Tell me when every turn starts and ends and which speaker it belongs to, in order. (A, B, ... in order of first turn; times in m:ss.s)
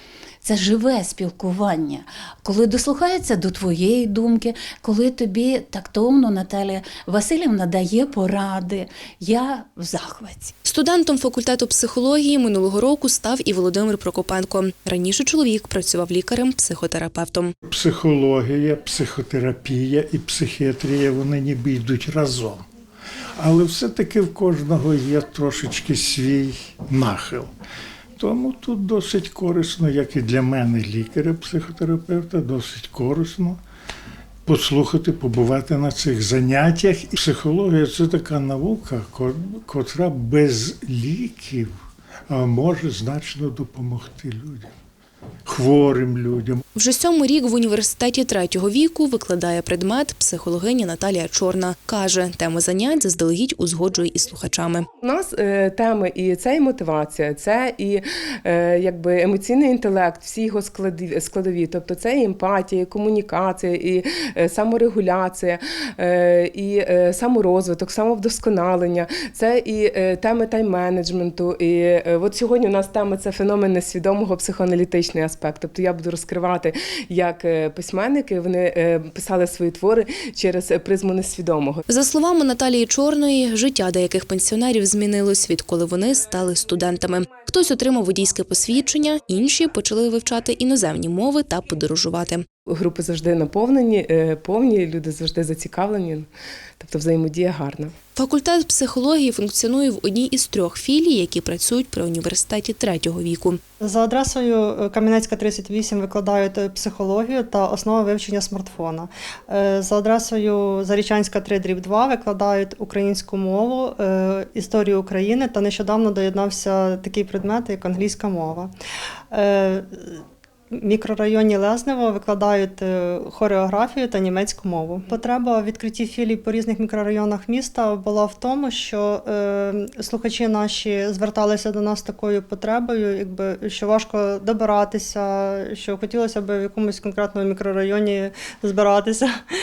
0:00.4-0:10.5 A
0:10.6-0:17.5 B
0:17.7-0:22.6 C
0:23.4-0:27.5 C
0:28.2-0:33.6 C
0:34.4-0:41.7 C
0:42.3-0:44.7 C
0:45.5-0:46.6 C
0:46.7-0:54.9 B
0:55.0-1:21.8 D
1:21.9-1:32.4 B
1:32.7-1:36.3 D
1:36.8-1:37.9 D
1:38.2-1:43.6 B
1:43.8-1:58.7 E
1:59.3-2:19.3 E